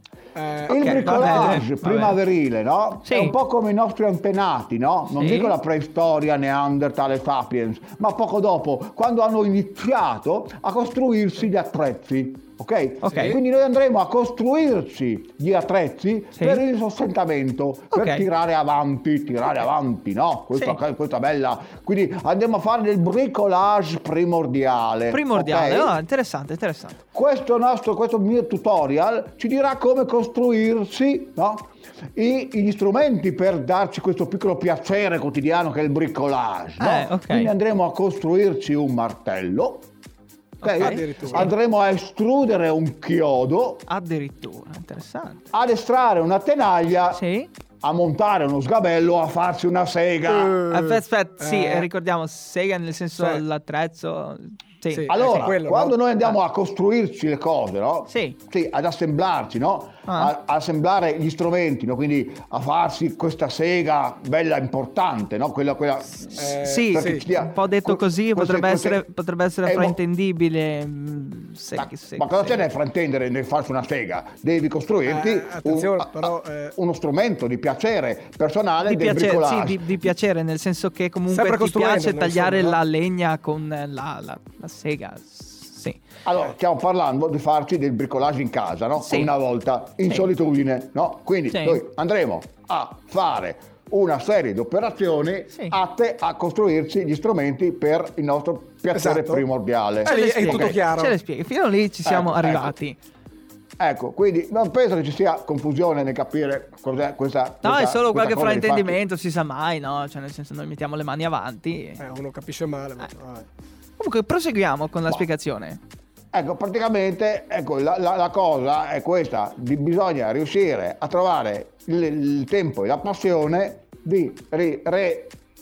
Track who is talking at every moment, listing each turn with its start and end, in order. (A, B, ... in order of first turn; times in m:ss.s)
0:00.4-0:01.6 A
0:00.6-0:26.0 B
0:00.7-0:02.2 C
0:03.0-0:03.3 C
0:05.1-0:05.6 C
0:13.0-0:13.4 C
0:16.4-0:16.6 C
0:17.9-0:18.3 C
0:25.1-0:27.0 C
0:27.1-0:39.9 B
0:36.8-0:37.5 C
0:40.6-0:41.5 C
0:40.6-0:43.8 B
0:40.8-0:41.5 A
0:43.9-0:45.5 C
0:45.5-0:47.2 B
0:47.1-0:47.5 C
0:47.8-0:50.6 B
0:50.3-0:51.9 A
0:50.7-0:55.5 C
0:54.9-0:56.0 A
0:55.1-1:09.0 B
0:58.1-0:58.4 C
1:00.1-1:00.3 C
1:06.4-1:07.2 A
1:06.6-1:12.6 C
1:09.6-1:10.0 B
1:11.8-1:19.9 B
1:15.1-1:16.7 A
1:18.8-1:26.0 C
1:21.3-1:22.8 A
1:26.2-1:40.8 B
1:29.0-1:29.3 C
1:31.5-1:31.8 C
1:38.9-1:39.4 A
1:40.0-1:41.1 A
1:40.0-1:43.0 C
1:42.0-1:42.7 B
1:43.8-1:49.0 B
1:47.6-1:52.0 C
1:52.0-1:53.4 A
1:54.0-1:55.8 C
1:56.3-2:05.3 B